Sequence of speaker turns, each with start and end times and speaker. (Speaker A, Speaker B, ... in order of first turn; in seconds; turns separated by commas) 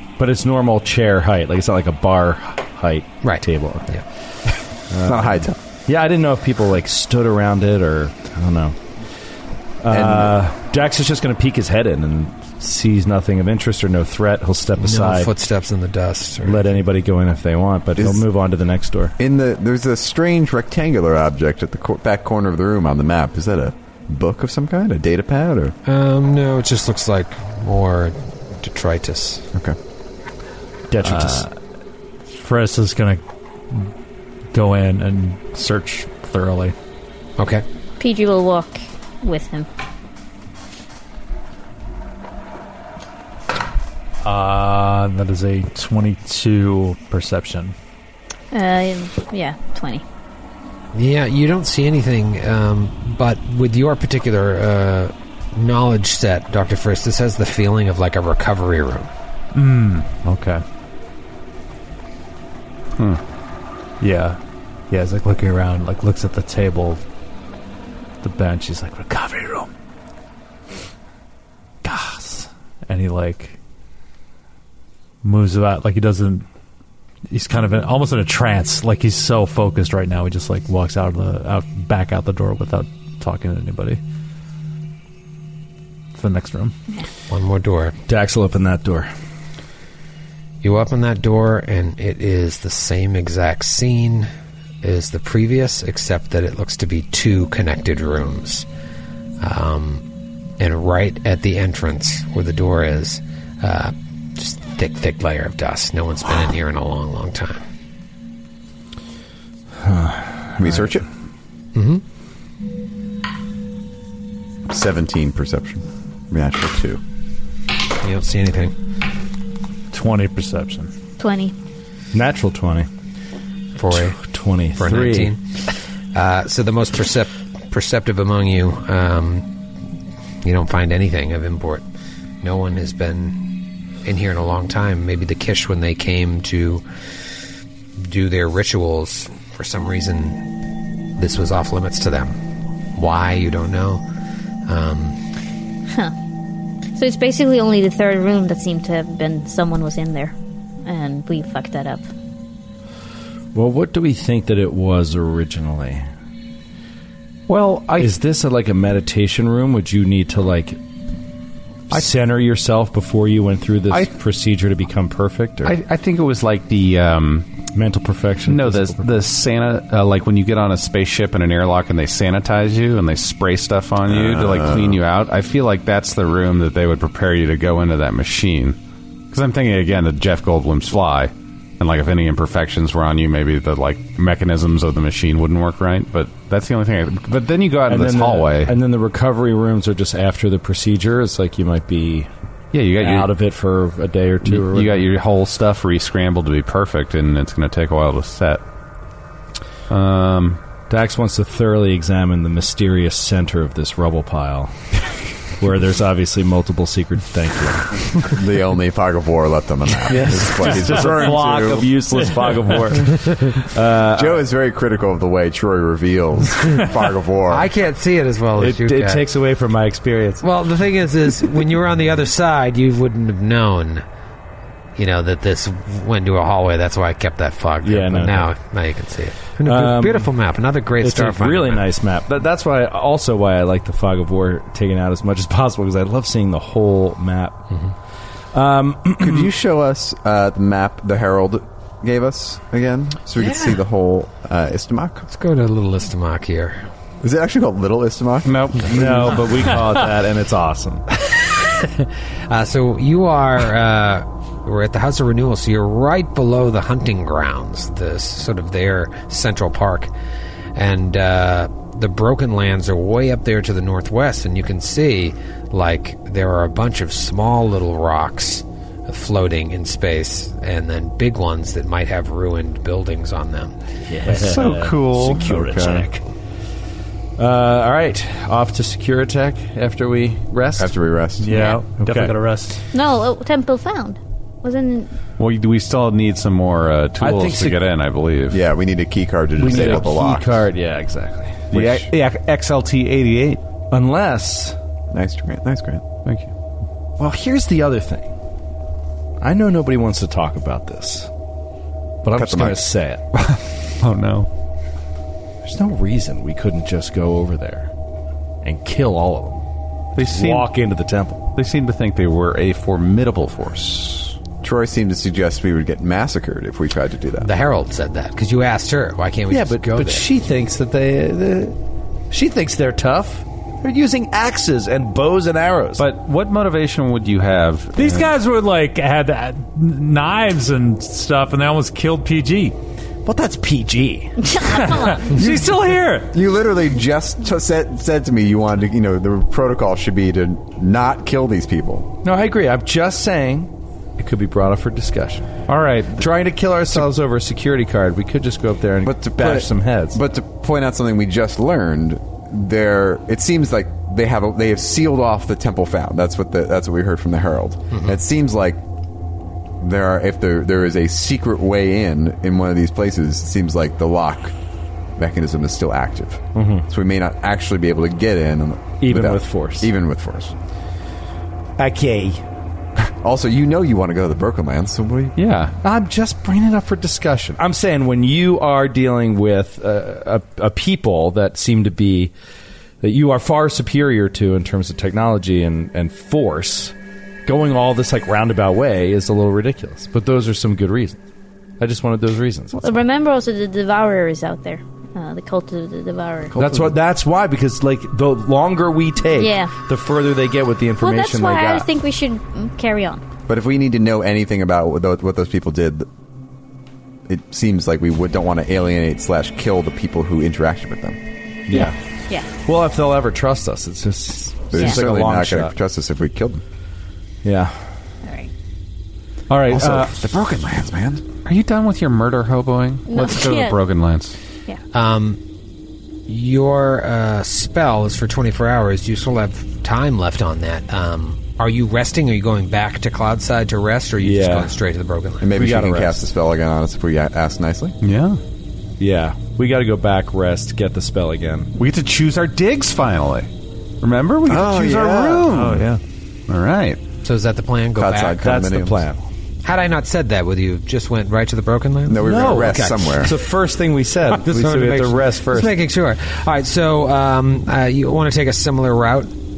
Speaker A: 0.2-3.9, Speaker B: 3.2-4.0, Speaker A: 4.9-8.8, Speaker C: 5.0-5.6, Speaker A: 9.8-15.3, Speaker C: 9.9-10.3, Speaker B: 14.8-16.8, Speaker A: 16.4-19.1, Speaker C: 18.0-18.2, Speaker C: 19.2-25.7, Speaker B: 25.8-29.4, Speaker A: 30.9-31.5, Speaker D: 31.0-31.4, Speaker D: 32.3-33.9, Speaker D: 34.5-36.7, Speaker B: 37.4-37.6, Speaker E: 38.0-39.7, Speaker D: 44.2-47.7, Speaker E: 48.5-50.0, Speaker B: 50.9-59.1, Speaker D: 59.5-60.6, Speaker D: 64.0-64.4, Speaker D: 64.9-67.0, Speaker D: 68.2-69.7, Speaker D: 71.8-73.6, Speaker D: 75.2-76.5, Speaker D: 77.3-84.0, Speaker D: 86.1-86.7, Speaker B: 87.3-88.0, Speaker A: 88.1-89.1, Speaker B: 90.6-94.3, Speaker B: 94.8-98.7, Speaker B: 99.4-100.0, Speaker B: 100.6-107.6, Speaker A: 109.8-110.9, Speaker C: 110.6-111.0, Speaker B: 111.7-112.0, Speaker C: 114.7-117.0, Speaker B: 118.0-118.7, Speaker D: 119.9-120.9, Speaker E: 121.2-121.5, Speaker A: 122.1-122.9, Speaker B: 123.8-124.2, Speaker A: 123.9-125.3, Speaker B: 124.7-125.4, Speaker B: 126.1-129.5, Speaker B: 130.4-131.8, Speaker B: 132.4-133.4, Speaker B: 134.0-136.8, Speaker B: 138.0-140.5, Speaker B: 141.2-142.4, Speaker B: 142.9-144.0, Speaker B: 144.7-145.2, Speaker E: 146.9-152.1, Speaker A: 153.5-156.1, Speaker F: 157.5-158.1, Speaker A: 157.9-160.8, Speaker A: 161.9-165.7, Speaker F: 165.6-167.5, Speaker A: 167.7-169.2, Speaker F: 168.4-178.8, Speaker C: 174.1-175.0, Speaker F: 179.3-188.7, Speaker A: 187.9-192.3, Speaker F: 192.7-193.3, Speaker A: 193.0-195.1, Speaker F: 194.4-198.6, Speaker F: 199.9-200.6, Speaker A: 200.9-204.7, Speaker A: 205.6-208.0, Speaker C: 208.3-211.9, Speaker A: 210.1-214.4, Speaker C: 214.1-217.7, Speaker B: 217.5-219.2, Speaker A: 218.6-220.4, Speaker B: 220.4-224.0, Speaker B: 224.9-231.8, Speaker A: 227.8-228.5, Speaker A: 229.6-230.3, Speaker A: 231.0-237.6, Speaker A: 238.5-239.5, Speaker C: 239.2-245.2, Speaker B: 243.4-243.7, Speaker B: 245.2-246.9, Speaker C: 247.2-249.0, Speaker F: 248.4-249.6, Speaker A: 248.8-251.0, Speaker B: 251.2-260.1, Speaker B: 260.7-273.7, Speaker A: 274.1-276.2, Speaker F: 274.2-276.1, Speaker A: 277.4-280.9, Speaker C: 280.8-281.5, Speaker D: 281.4-282.8, Speaker E: 281.5-281.8, Speaker A: 282.0-282.3, Speaker E: 282.9-285.1, Speaker F: 285.4-288.6, Speaker A: 287.2-287.8, Speaker C: 288.5-290.6, Speaker A: 289.6-292.1, Speaker F: 289.7-290.0, Speaker F: 291.7-293.6, Speaker A: 293.9-294.8, Speaker C: 295.1-296.0, Speaker F: 296.2-296.5, Speaker A: 297.2-298.3, Speaker A: 299.4-301.3, Speaker A: 302.2-303.2, Speaker C: 302.4-302.8, Speaker F: 303.3-304.5, Speaker A: 305.6-307.9, Speaker A: 308.6-309.6, Speaker F: 310.1-310.7, Speaker A: 310.2-311.4, Speaker F: 311.5-314.4, Speaker C: 314.6-317.5, Speaker B: 317.4-320.3, Speaker A: 319.5-321.8, Speaker A: 322.3-326.0, Speaker F: 326.0-328.3, Speaker D: 327.9-332.8, Speaker A: 333.2-335.5, Speaker E: 334.4-335.2, Speaker D: 335.1-336.2, Speaker C: 335.4-342.1, Speaker A: 342.2-350.2, Speaker F: 345.7-346.3, Speaker C: 349.0-358.8, Speaker C: 359.8-364.5, Speaker C: 365.2-370.5, Speaker A: 366.5-366.9, Speaker A: 369.0-369.9, Speaker A: 371.8-372.4, Speaker C: 373.2-375.4, Speaker F: 375.4-375.7, Speaker A: 375.8-382.3, Speaker A: 383.0-386.9, Speaker A: 387.4-391.2, Speaker A: 391.8-393.0, Speaker E: 392.8-396.5, Speaker C: 396.5-396.9, Speaker A: 396.5-401.9, Speaker E: 399.3-399.7, Speaker E: 401.0-403.2, Speaker C: 403.5-406.1, Speaker C: 407.3-411.2, Speaker A: 411.7-412.0, Speaker E: 411.8-412.5, Speaker A: 412.5-415.7, Speaker C: 414.7-416.6, Speaker A: 417.4-417.9, Speaker E: 418.2-418.5, Speaker F: 419.5-420.0, Speaker A: 419.6-420.1, Speaker C: 419.7-421.2, Speaker F: 421.4-424.4, Speaker E: 423.1-423.8, Speaker B: 424.9-425.4, Speaker B: 426.3-435.5, Speaker A: 434.2-434.8, Speaker C: 435.4-437.9, Speaker A: 435.5-436.2, Speaker F: 438.0-438.4, Speaker A: 439.0-441.7, Speaker F: 441.8-443.5, Speaker F: 444.0-446.0, Speaker C: 444.4-445.7, Speaker D: 445.5-446.0, Speaker F: 446.5-447.0, Speaker B: 447.2-448.4, Speaker C: 448.0-449.0, Speaker A: 448.4-449.2, Speaker B: 449.6-453.3, Speaker C: 452.1-453.3, Speaker A: 452.2-455.8, Speaker B: 454.3-459.3